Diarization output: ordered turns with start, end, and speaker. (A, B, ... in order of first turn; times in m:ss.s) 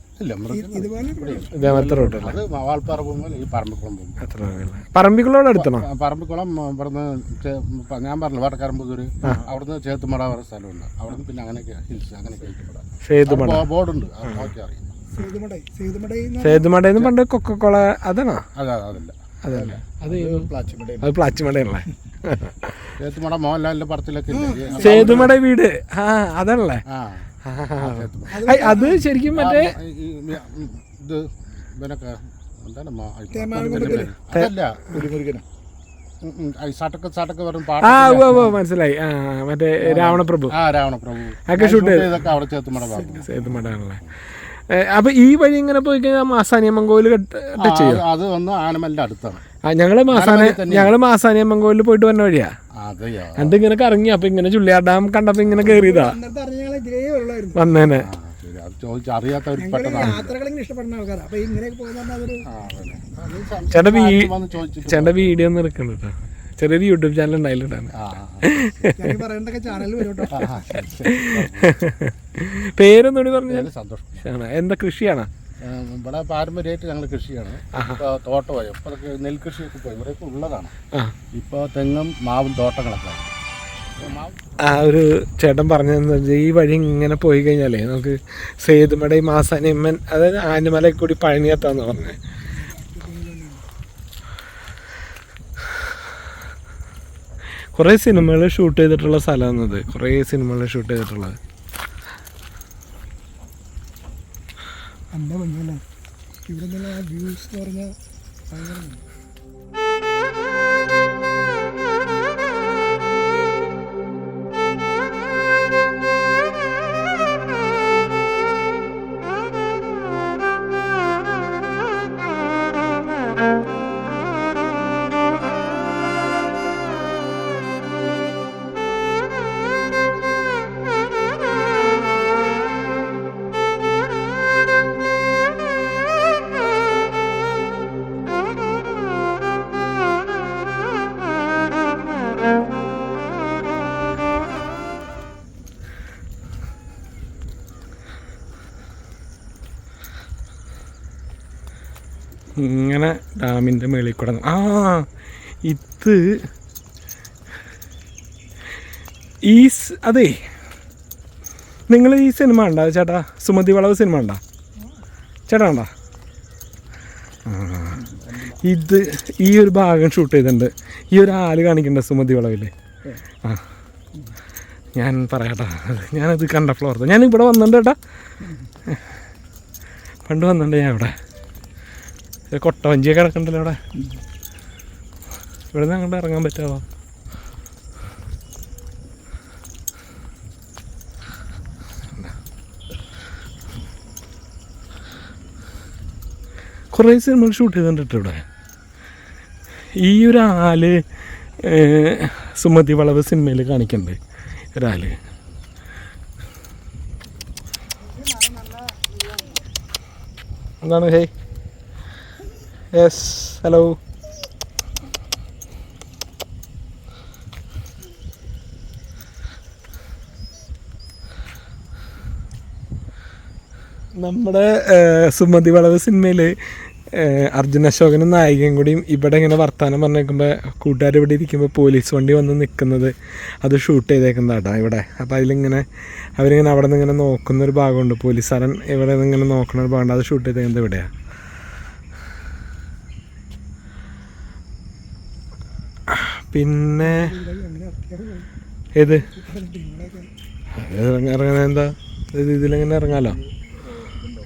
0:00.2-0:04.2 A
0:00.5-0:01.5 B
0:01.5-0:02.4 C
0:04.2-0:05.9 C
0:05.5-0:15.0 A
0:13.0-0:13.6 C
0:15.1-0:16.6 B
0:16.4-0:18.4 C
0:18.6-0:19.8 A
0:19.4-0:20.5 C
0:20.0-0:21.1 D
0:21.0-0:22.9 C
0:23.0-0:25.3 A
0:24.3-0:25.3 B
0:24.8-0:26.8 C
0:26.9-0:27.3 A
0:27.4-0:29.7 C
0:27.8-0:28.5 A
0:28.3-0:29.0 B
0:29.3-0:31.2 A
0:31.8-0:34.9 A
0:33.3-0:34.1 B
0:34.9-0:35.4 D
0:36.2-0:38.6 A
0:37.8-0:40.5 C
0:39.8-0:43.8 A
0:41.5-0:42.1 C
0:42.9-0:43.4 B
0:43.0-0:48.0 C
0:47.6-0:49.4 A
0:49.7-0:52.5 C
0:50.1-0:50.9 A
0:52.8-0:53.6 A
0:53.4-0:56.2 C
0:55.4-0:55.9 A
0:55.6-0:57.6 B
0:57.5-0:58.1 C
0:58.0-1:00.3 A
0:59.6-1:02.4 B
1:02.4-1:05.4 A
1:03.7-1:04.3 C
1:04.8-1:07.9 C
1:07.9-1:08.5 A
1:08.4-1:09.1 C
1:09.0-1:10.5 B
1:10.3-1:11.8 A
1:11.1-1:13.7 C
1:13.5-1:14.3 A
1:14.2-1:15.3 C
1:15.6-1:20.7 A
1:21.3-1:23.3 A
1:24.0-1:24.4 A
1:24.6-1:32.2 C
1:32.5-1:33.6 B
1:37.7-1:41.4 C
1:45.1-1:45.8 B
1:46.4-1:47.9 B
1:48.5-1:49.0 B
2:32.6-2:35.0 C
2:35.6-2:36.4 C
2:39.4-2:40.4 C
2:41.9-2:44.4 C
2:45.5-2:45.9 C
2:47.4-2:52.7 C
2:48.1-2:48.5 D
2:55.0-2:58.0 C
2:58.9-2:59.1 C
3:00.2-3:01.1 C
3:02.5-3:03.8 C
3:05.7-3:06.8 C
3:16.9-3:18.4 C
3:20.0-3:21.0 C
3:21.6-3:24.2 C
3:24.7-3:25.2 C
3:28.2-3:28.8 B
3:30.8-3:31.3 C
3:32.9-3:34.0 C
3:44.2-3:46.5 C
3:47.1-4:01.1 C
4:06.1-4:07.3 C
4:07.0-4:08.5 B
4:09.0-4:09.3 C
4:09.1-4:10.3 B
4:10.7-4:13.4 C